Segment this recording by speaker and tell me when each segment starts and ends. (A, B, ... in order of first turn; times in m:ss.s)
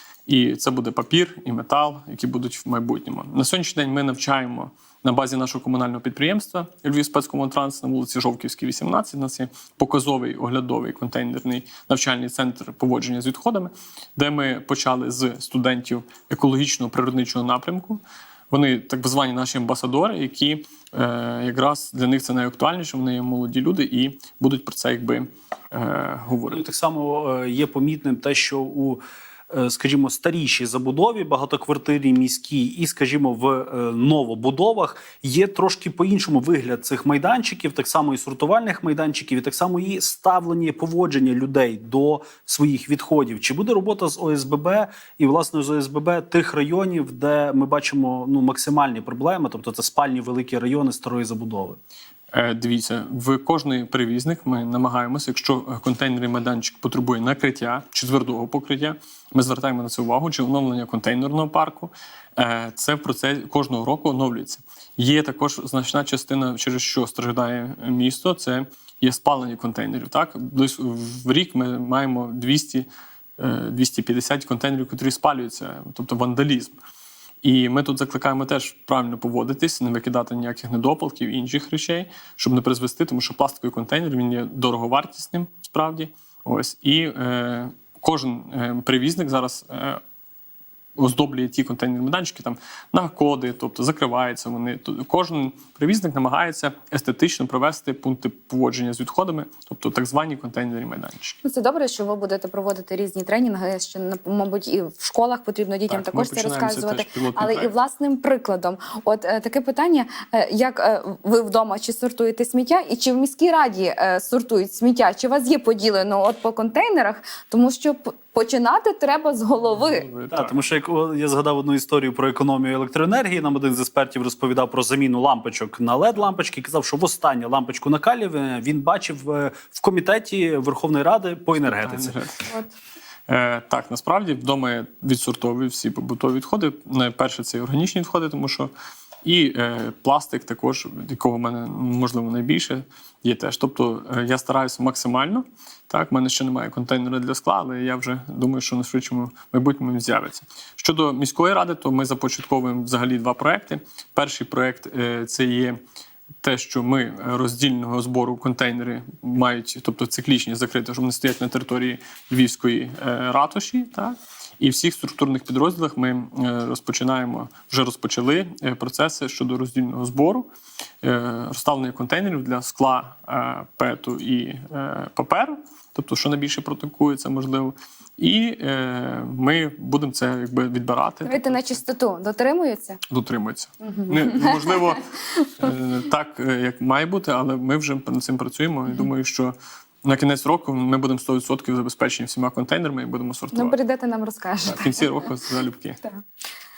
0:00.3-0:26.6 A
0:26.5-0:51.8 B
0:52.3-1:12.9 A
1:13.4-1:16.8 A
1:17.4-1:30.0 A
1:31.0-1:41.4 A
1:41.4-2:00.1 C
1:45.9-1:47.7 A
1:59.7-2:00.6 A
2:00.3-2:12.2 B
2:11.6-2:12.5 A
2:13.3-2:18.7 A
2:19.2-2:35.8 A
2:36.4-2:50.5 A
2:51.0-3:01.8 A
3:01.2-3:03.0 C
3:03.1-3:13.8 A
3:03.8-3:05.7 C
3:13.5-3:15.2 C
3:14.7-3:16.0 A